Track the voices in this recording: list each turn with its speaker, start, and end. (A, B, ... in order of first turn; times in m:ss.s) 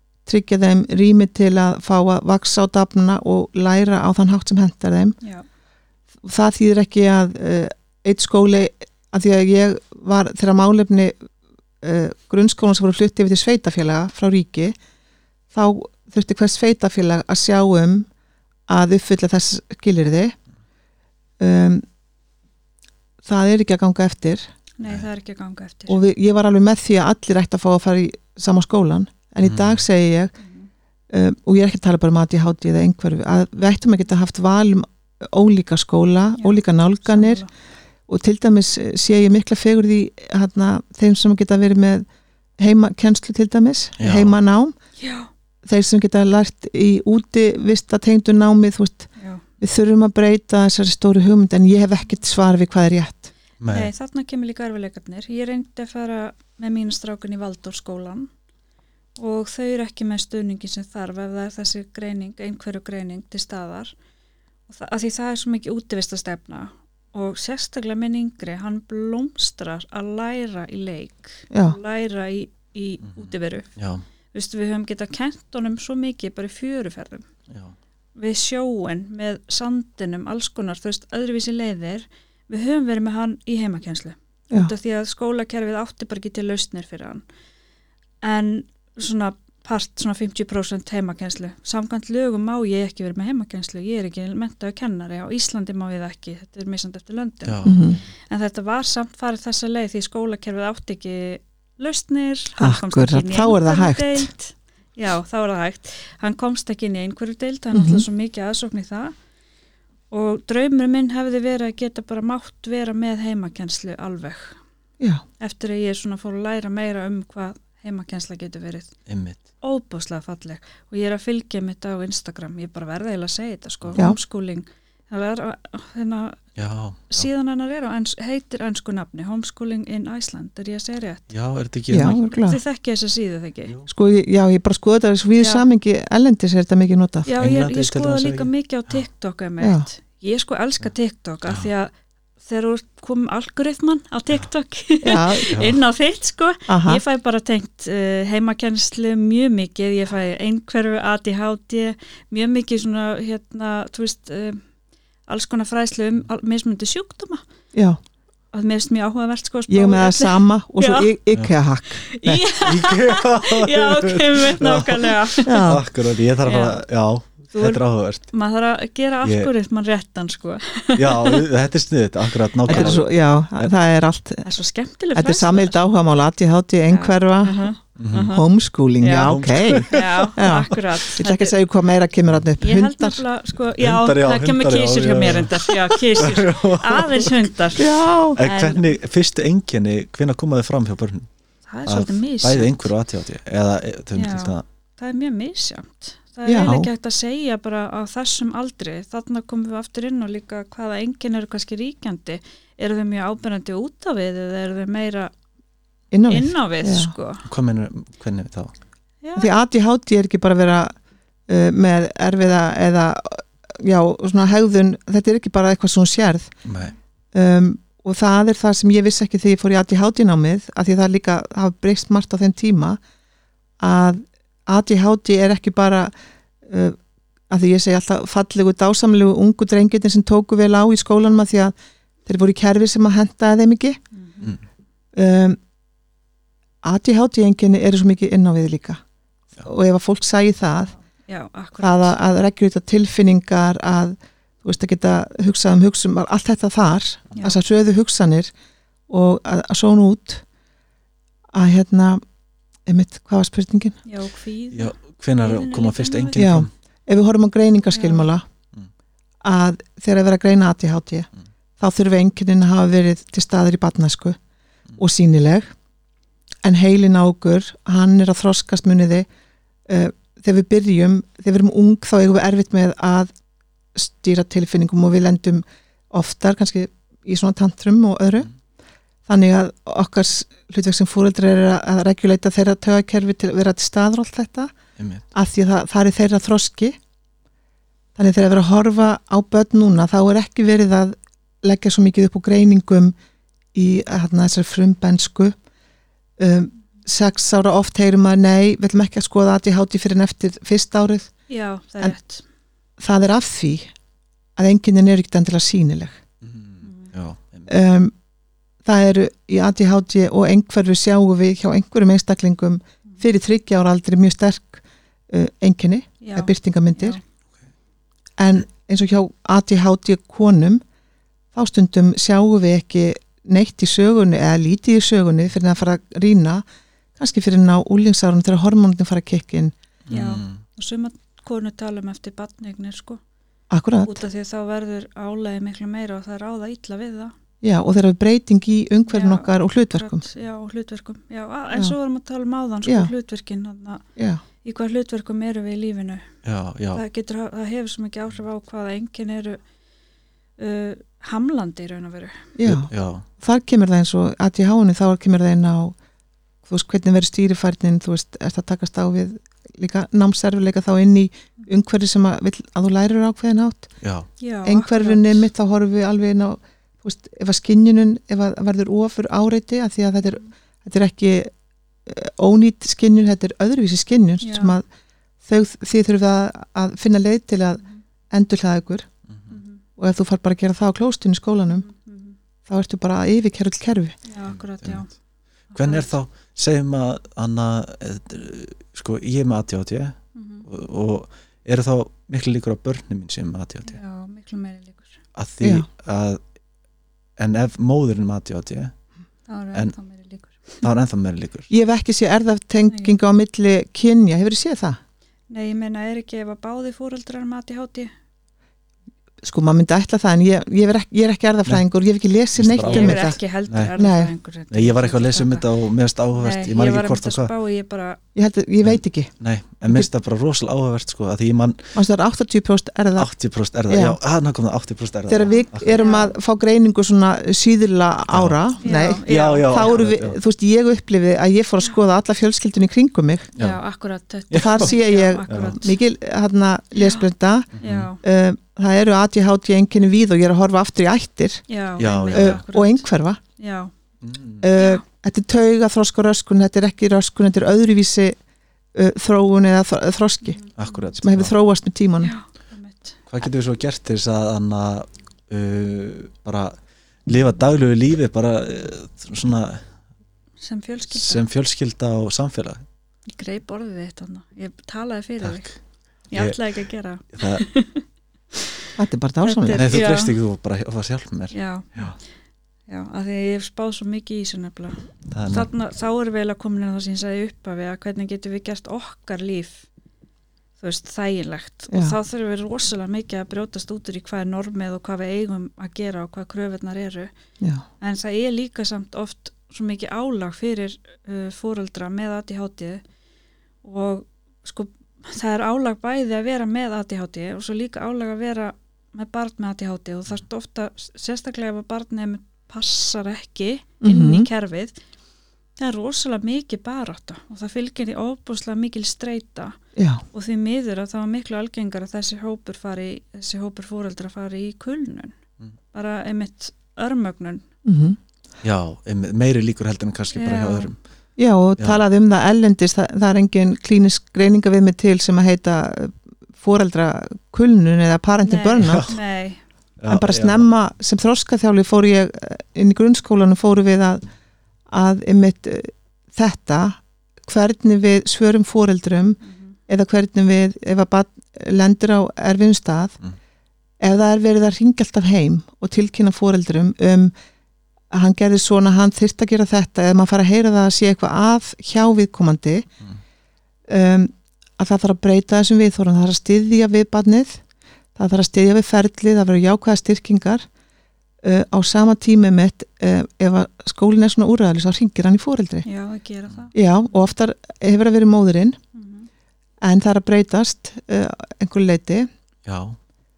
0:00.2-0:05.2 A
0:06.2-0:11.2 A
0:11.8-0:14.8 A
0:15.5-0:18.1 A
0:18.7-0:20.3 A
0:21.4-0:21.8 A
0:23.2-0:24.5 A
0:24.8-0:26.0 B
0:25.9-0:30.3 A
0:29.4-0:29.8 C
0:30.4-0:30.7 B
0:31.1-0:37.4 A
0:36.4-0:37.5 B
0:38.1-0:42.0 A
0:42.6-0:44.7 A
0:44.0-0:44.4 C
0:45.0-0:45.3 B
0:45.6-0:49.1 A
0:49.2-0:49.4 B
0:49.6-0:53.3 A
0:53.6-0:53.9 C
0:53.7-0:58.3 B
0:59.2-1:03.9 B
1:04.7-1:13.7 B
1:11.5-1:11.8 A
1:13.0-1:14.0 C
1:14.3-1:17.3 B
1:17.5-1:17.7 C
1:18.2-1:27.2 B
1:28.2-1:37.7 B
1:37.4-1:38.0 C
1:37.6-1:38.0 A
1:38.3-1:49.1 B
1:42.6-1:44.3 A
1:47.7-1:48.0 A
1:50.1-1:54.6 B
1:55.4-1:58.9 B
1:59.0-1:59.4 C
1:59.6-2:06.4 B
2:06.6-2:07.3 C
2:07.1-2:11.3 B
2:11.3-2:12.2 C
2:11.9-2:12.6 A
2:12.1-2:13.7 B
2:13.9-2:17.3 A
2:15.4-2:15.6 B
2:17.2-2:21.9 B
2:17.3-2:18.5 C
2:19.6-2:19.8 A
2:22.4-2:34.6 B
2:25.0-2:25.5 A
2:25.5-2:25.8 C
2:26.7-2:27.0 A
2:35.3-2:37.4 B
2:37.7-2:38.0 A
2:38.5-2:41.1 B
2:39.7-2:42.5 A
2:42.0-2:45.7 B
2:42.6-2:48.2 C
2:45.4-2:45.8 A
2:46.4-2:46.8 B
2:47.5-2:51.5 B
2:49.2-2:49.5 C
2:51.0-2:53.7 C
2:52.7-2:53.0 B
2:52.7-2:54.4 A
2:54.4-2:55.8 B
2:55.1-3:03.2 A
2:56.9-2:58.4 B
2:58.0-2:58.4 C
2:59.0-3:01.6 B
2:59.2-3:00.7 C
3:02.6-3:09.0 B
3:03.8-3:11.3 C
3:07.8-3:08.4 A
3:11.7-3:12.9 B
3:11.8-3:14.6 C
3:14.1-3:25.3 B
3:16.4-3:16.9 A
3:26.1-3:27.1 A
3:26.3-3:27.4 B
3:27.4-3:28.7 C
3:29.2-3:29.5 B
3:29.4-3:31.0 A
3:31.5-3:36.5 A
3:36.6-3:36.9 C
3:37.3-3:43.0 A
3:43.8-3:46.1 A
3:46.6-3:47.0 A
3:47.5-3:51.7 A
3:52.2-3:54.0 A
3:54.1-3:54.6 B
3:55.1-3:55.6 A
3:56.8-3:59.0 A
3:59.6-4:00.9 A
4:01.3-4:02.2 B
4:01.8-4:08.5 A
4:09.1-4:10.4 A
4:11.5-4:12.2 A
4:12.8-4:14.0 A
4:14.0-4:16.4 B
4:14.7-4:16.7 C
4:16.4-4:18.4 A
4:17.9-4:18.3 B
4:19.4-4:21.3 A
4:21.8-4:24.4 A
4:25.0-4:25.7 A
4:26.6-4:29.3 A
4:29.9-4:33.3 A
4:33.9-4:38.5 A
4:39.2-4:44.7 A
4:45.0-4:45.2 C
4:45.3-4:47.0 A
4:48.2-4:53.1 A
4:53.7-4:55.6 A
4:56.4-5:01.3 A
5:01.5-5:02.4 B
5:03.0-5:03.9 A
5:04.6-5:06.2 A
5:06.4-5:07.7 C
5:06.8-5:07.1 B
5:07.7-5:08.1 A
5:08.8-5:17.2 A
5:16.2-5:17.2 B
5:18.4-5:20.8 A
5:21.5-5:26.6 A
5:27.2-5:29.7 A
5:30.1-5:30.6 C
5:30.1-5:33.2 B
5:33.7-5:34.2 A
5:34.0-5:37.3 B
5:37.6-5:40.2 A
5:39.1-5:44.0 B
5:42.8-5:43.1 A
5:44.6-5:46.3 B
5:46.4-5:47.0 C
5:46.9-5:49.6 B
5:50.6-5:52.5 B
5:52.6-5:56.0 A
5:52.6-5:53.2 C
5:56.6-6:03.9 A
6:04.0-6:04.3 C
6:04.4-6:05.5 B
6:04.6-6:11.5 A
6:12.0-6:14.8 A
6:14.4-6:14.8 B
6:15.4-6:19.1 A
6:19.3-6:19.6 C
6:19.5-6:19.8 B
6:20.0-6:21.8 A
6:21.7-6:22.4 B
6:22.6-6:24.2 A
6:24.2-6:25.1 B
6:24.5-6:25.0 C
6:25.7-6:26.1 B
6:25.7-6:34.0 C
6:30.3-6:30.7 B
6:33.9-6:35.2 B
6:35.3-6:36.4 C
6:35.6-6:35.9 A
6:37.4-6:38.9 C
6:39.5-6:40.9 B
6:40.8-6:41.7 C
6:41.7-6:45.0 A
6:42.9-6:43.2 B
6:45.5-6:48.1 B
6:49.4-6:53.4 A
6:52.5-6:54.0 C
6:52.8-6:55.7 B
6:54.0-6:54.3 A
6:54.7-6:57.5 C
6:56.3-6:58.2 B
6:58.3-6:59.3 A
6:58.8-7:01.9 C
7:01.9-7:03.3 A
7:03.2-7:06.0 C
7:03.9-7:04.2 A
7:05.3-7:13.5 A
7:05.5-7:06.3 B
7:08.3-7:10.4 C
7:08.8-7:10.0 B
7:13.6-7:13.8 C
7:13.6-7:16.0 B
7:14.5-7:14.9 C
7:14.6-7:21.6 A
7:15.5-7:15.8 C
7:17.0-7:17.3 B
7:17.8-7:18.1 C
7:17.8-7:18.2 B
7:21.7-7:23.0 B
7:22.0-7:22.6 C
7:22.3-7:23.4 A
7:23.6-7:23.9 B
7:24.2-7:24.7 C
7:24.6-7:28.4 A
7:24.8-7:25.0 B
7:28.9-7:30.6 A
7:30.4-7:31.1 B
7:30.8-7:31.5 C
7:31.2-7:32.3 A
7:32.2-7:33.2 B
7:33.3-7:39.8 C
7:40.6-7:41.4 B
7:41.1-7:42.8 C
7:43.3-7:45.6 B
7:45.4-7:45.8 C
7:46.3-7:48.7 B
7:46.3-7:46.6 C
7:47.3-7:47.6 C
7:49.0-7:50.0 A
7:49.4-7:50.4 B
7:49.8-7:52.2 C
7:51.5-7:52.1 B
7:52.9-7:59.8 B
7:55.3-7:55.7 C
8:00.8-8:07.3 B
8:01.9-8:02.2 A
8:08.0-8:13.0 B
8:13.8-8:24.9 B
8:24.0-8:24.5 A
8:25.8-8:29.8 B
8:30.0-8:30.2 A
8:30.3-8:35.4 B
8:35.9-8:37.6 B
8:37.8-8:38.2 A
8:38.6-8:41.0 C
8:40.3-8:40.9 B
8:41.4-8:49.1 A
8:48.4-8:49.6 B
8:48.8-8:49.2 C
8:50.0-8:50.7 C
8:50.1-8:54.2 A
8:54.9-9:03.2 A
8:59.4-8:59.7 B
9:04.0-9:07.3 A
9:08.1-9:12.9 A
9:13.9-9:17.6 A
9:18.2-9:20.6 A
9:21.4-9:25.8 A
9:25.8-9:26.7 B
9:26.7-9:28.8 A
9:28.9-9:29.3 B
9:29.8-9:32.3 A
9:32.6-9:33.0 C